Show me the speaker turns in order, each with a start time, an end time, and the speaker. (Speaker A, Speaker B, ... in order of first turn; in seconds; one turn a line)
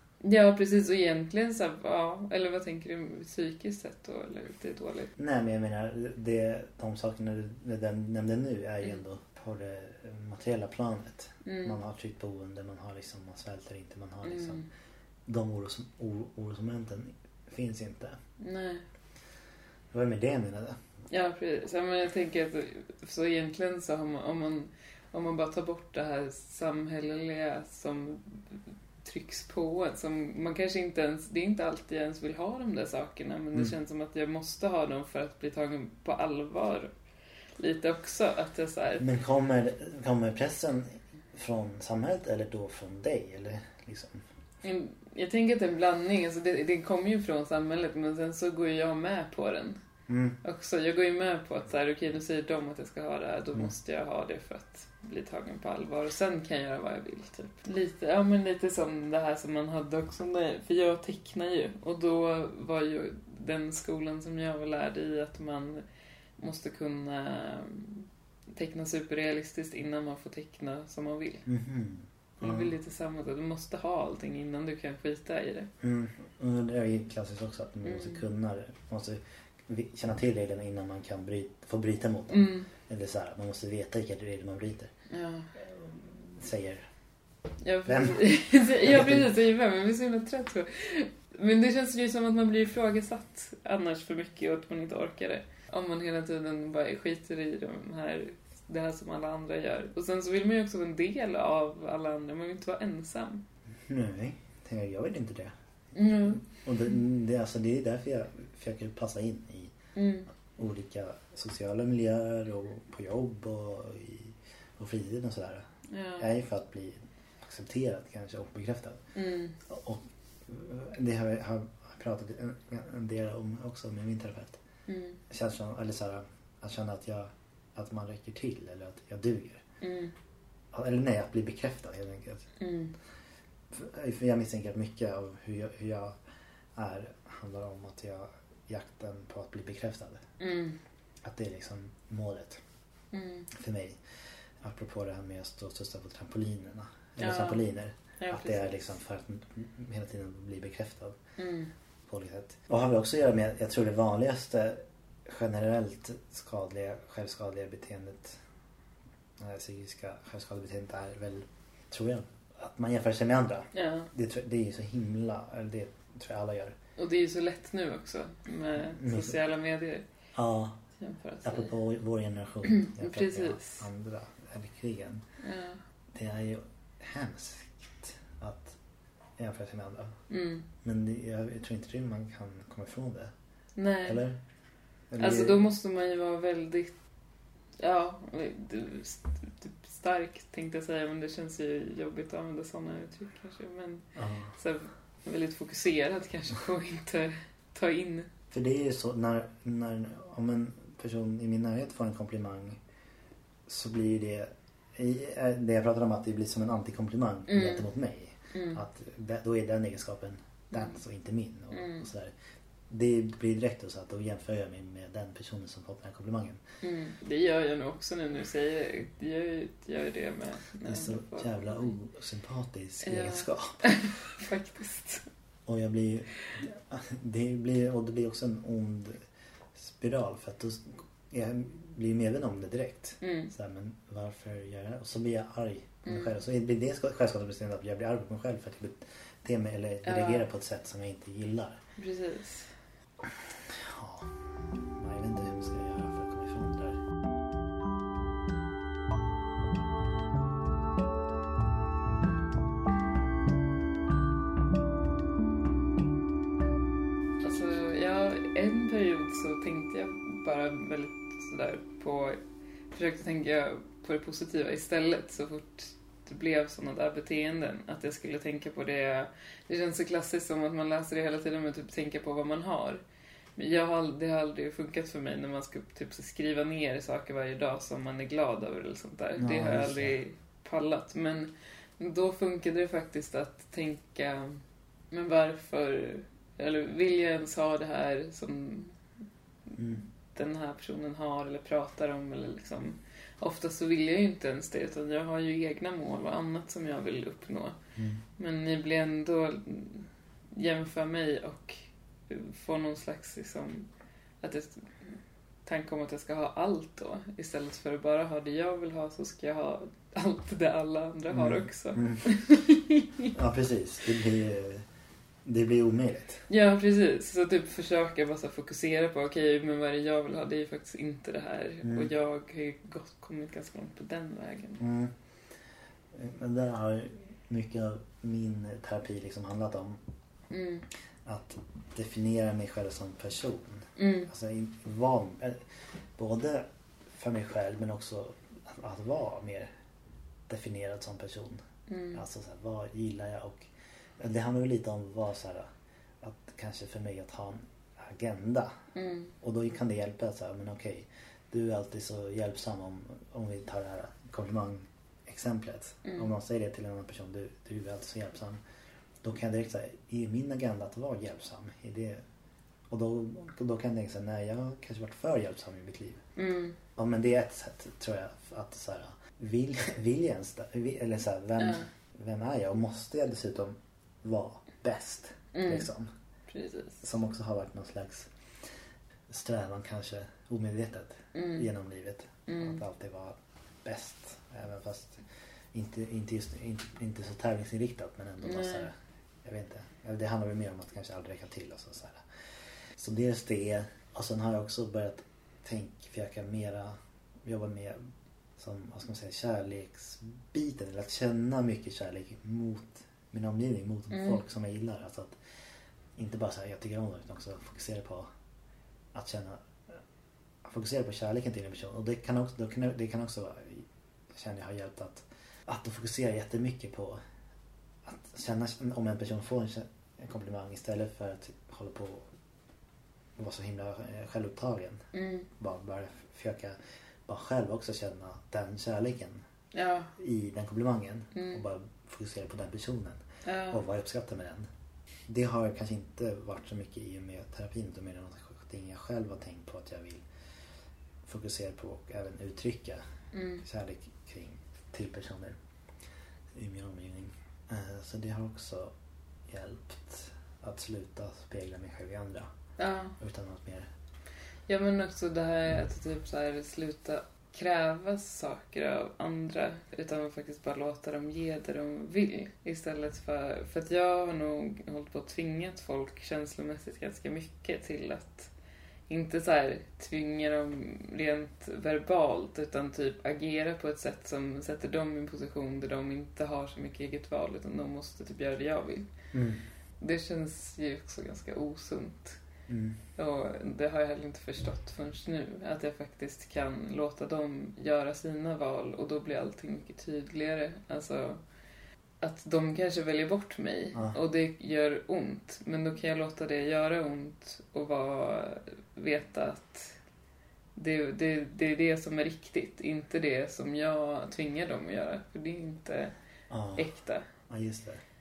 Speaker A: 0.2-5.1
Speaker B: 5.2-14.6
Speaker A: 11.4-11.8
Speaker A: 14.2-14.7
Speaker B: 15.3-18.2
Speaker A: 18.4-18.8
Speaker B: 19.9-20.8
Speaker A: 21.1-36.9
Speaker A: 37.6-39.1
Speaker B: 39.0-44.2
Speaker A: 44.6-49.8
Speaker B: 50.1-50.4
Speaker A: 50.4-65.8
Speaker A: 66.4-71.5
Speaker B: 71.5-72.7
Speaker A: 72.4-75.7
Speaker B: 75.8-84.9
Speaker A: 77.8-78.2
Speaker A: 82.3-82.7
Speaker A: 85.1-85.5
Speaker B: 85.6-86.9
Speaker A: 87.6-103.4
Speaker B: 87.9-88.2
Speaker B: 88.8-89.3
Speaker B: 103.9-105.5
Speaker A: 106.0-106.4
Speaker B: 106.3-109.8
Speaker A: 110.0-110.3
Speaker B: 110.5-115.7
Speaker A: 115.9-116.3
Speaker B: 116.2-119.0
Speaker A: 119.2-119.5
Speaker B: 119.7-124.6
Speaker A: 124.9-125.2
Speaker B: 125.3-129.6
Speaker A: 129.8-130.1
Speaker B: 130.7-132.5
Speaker A: 132.6-132.9
Speaker B: 133.7-136.2
Speaker B: 136.8-140.2
Speaker A: 140.4-140.8
Speaker B: 141.2-142.6
Speaker A: 143.1-143.5
Speaker B: 143.5-144.0
Speaker B: 144.6-151.2
Speaker A: 147.2-147.7
Speaker A: 148.2-148.8
Speaker A: 151.4-151.7
Speaker B: 152.1-158.4
Speaker B: 159.4-166.8
Speaker A: 163.7-164.1
Speaker A: 167.0-170.1
Speaker B: 168.9-169.4
Speaker B: 170.3-170.8
Speaker A: 171.0-171.7
Speaker B: 171.4-175.2
Speaker A: 172.7-173.8
Speaker A: 175.4-175.8
Speaker B: 176.1-178.8
Speaker B: 179.4-180.1
Speaker A: 180.3-180.7
Speaker B: 180.8-183.3
Speaker A: 183.8-184.2
Speaker B: 184.1-184.4
Speaker B: 185.1-185.6
Speaker A: 185.2-186.9
Speaker A: 187.8-198.3
Speaker B: 194.2-194.5
Speaker B: 198.5-202.8
Speaker B: 203.7-212.3
Speaker A: 207.5-207.9
Speaker A: 208.5-208.8
Speaker A: 211.7-212.1
Speaker B: 212.9-216.6
Speaker A: 216.8-221.9
Speaker B: 220.8-223.8
Speaker A: 223.0-225.3
Speaker B: 225.7-229.2
Speaker B: 229.8-241.8
Speaker A: 233.2-233.5
Speaker A: 236.1-236.3
Speaker A: 240.1-240.4
Speaker A: 242.0-242.7
Speaker B: 243.7-244.3
Speaker B: 244.9-247.0
Speaker A: 257.4-262.4
Speaker A: 262.9-273.0
Speaker A: 273.6-289.0
Speaker B: 279.4-280.2
Speaker A: 289.7-297.8
Speaker B: 298.0-298.2
Speaker A: 298.4-303.9
Speaker A: 304.4-313.3
Speaker B: 311.3-312.2
Speaker B: 313.3-314.9
Speaker B: 315.4-316.4
Speaker A: 316.5-324.8
Speaker B: 321.8-322.1
Speaker B: 324.8-325.1
Speaker B: 326.1-330.0
Speaker A: 330.5-330.9
Speaker B: 331.2-335.6
Speaker A: 334.0-334.3
Speaker B: 336.2-339.7
Speaker B: 340.5-341.6
Speaker A: 341.9-342.2
Speaker B: 342.1-343.7
Speaker B: 344.2-345.7
Speaker B: 346.2-348.7
Speaker A: 348.9-349.3
Speaker B: 349.4-358.6
Speaker A: 356.1-356.3
Speaker B: 359.2-362.2
Speaker B: 362.9-366.2
Speaker A: 366.4-366.8
Speaker B: 367.0-376.1
Speaker A: 371.6-371.9
Speaker A: 375.5-375.9
Speaker A: 376.5-377.0
Speaker B: 377.0-378.3
Speaker B: 379.3-388.9
Speaker A: 381.4-381.7
Speaker A: 382.5-382.8
Speaker A: 388.4-388.9
Speaker B: 389.4-392.2
Speaker B: 393.0-398.0
Speaker B: 398.6-405.4
Speaker A: 404.1-404.4
Speaker B: 406.2-408.3
Speaker B: 409.1-409.7
Speaker B: 410.6-417.2
Speaker B: 418.1-422.3
Speaker B: 423.4-425.1
Speaker A: 425.1-425.5
Speaker B: 425.6-429.4
Speaker A: 429.7-430.1
Speaker B: 430.2-434.7
Speaker A: 431.3-431.6
Speaker A: 433.4-433.8
Speaker B: 435.3-440.2
Speaker B: 441.2-443.0
Speaker A: 443.3-443.6
Speaker B: 443.6-445.6
Speaker B: 446.5-448.9
Speaker B: 449.5-452.5
Speaker A: 452.8-453.1
Speaker B: 453.2-453.9
Speaker A: 454.7-468.5
Speaker A: 469.1-479.1
Speaker B: 479.3-479.6
Speaker A: 480.0-482.4
Speaker B: 482.7-483.0
Speaker A: 483.2-491.4
Speaker A: 492.2-499.9
Speaker A: 500.8-506.1
Speaker B: 506.5-506.9
Speaker A: 506.8-507.3
Speaker B: 507.5-508.0